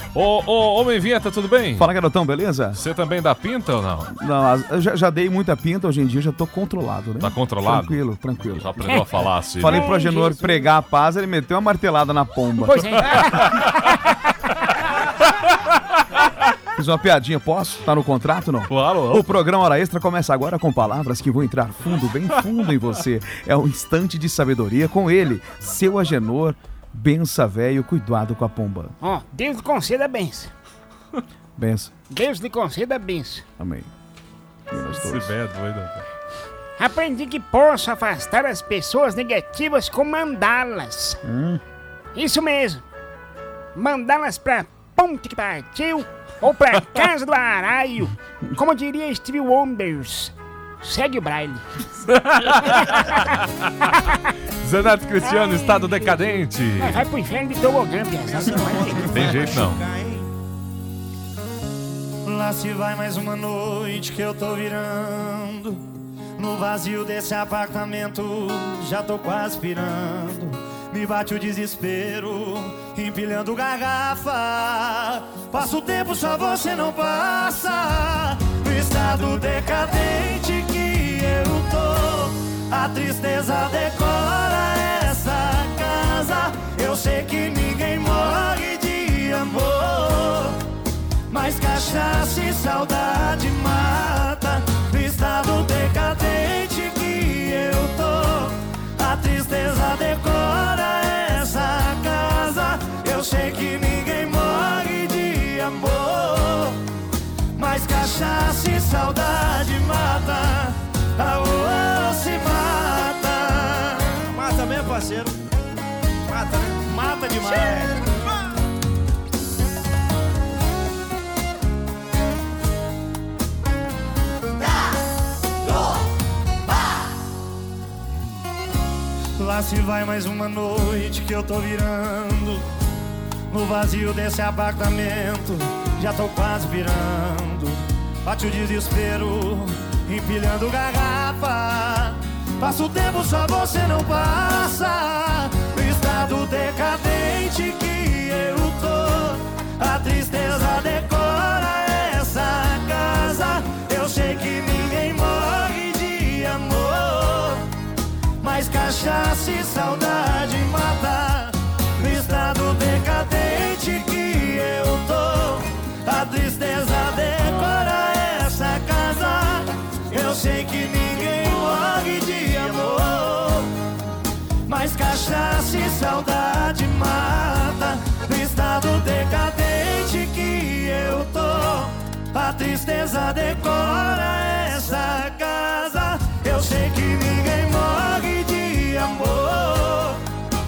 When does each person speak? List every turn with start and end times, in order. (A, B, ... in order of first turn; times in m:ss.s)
0:00.1-0:01.9 A
0:01.8-0:02.8 B
0:02.7-0:04.1 A
0:04.1-0:08.7 B
0:07.2-0:08.0 A
0:08.5-0:09.9 A
0:09.6-0:13.1 B
0:09.6-0:10.7 C
0:12.6-0:14.0 C
0:16.8-0:28.9 B
0:18.7-0:19.3 A
0:29.0-0:30.5 C
0:31.6-0:31.9 B
0:32.1-0:33.4 C
0:33.6-0:33.9 B
0:34.7-0:35.3 B
0:34.8-0:36.0 A
0:36.8-0:41.2 C
0:41.2-0:41.6 B
0:42.2-0:42.8 C
0:43.8-0:51.7 C
0:52.0-0:54.0 A
0:52.5-0:54.3 C
0:54.6-0:57.0 A
0:56.8-0:59.6 C
0:58.4-1:00.0 B
0:59.1-0:59.8 A
1:02.3-1:05.8 D
1:06.4-1:30.6 D
1:31.3-1:46.8 D
1:47.6-1:55.4 D
1:56.3-1:58.1 D
2:09.4-2:12.6 D
2:13.5-2:37.7 D
2:38.4-2:53.8 D
2:54.7-3:10.2 D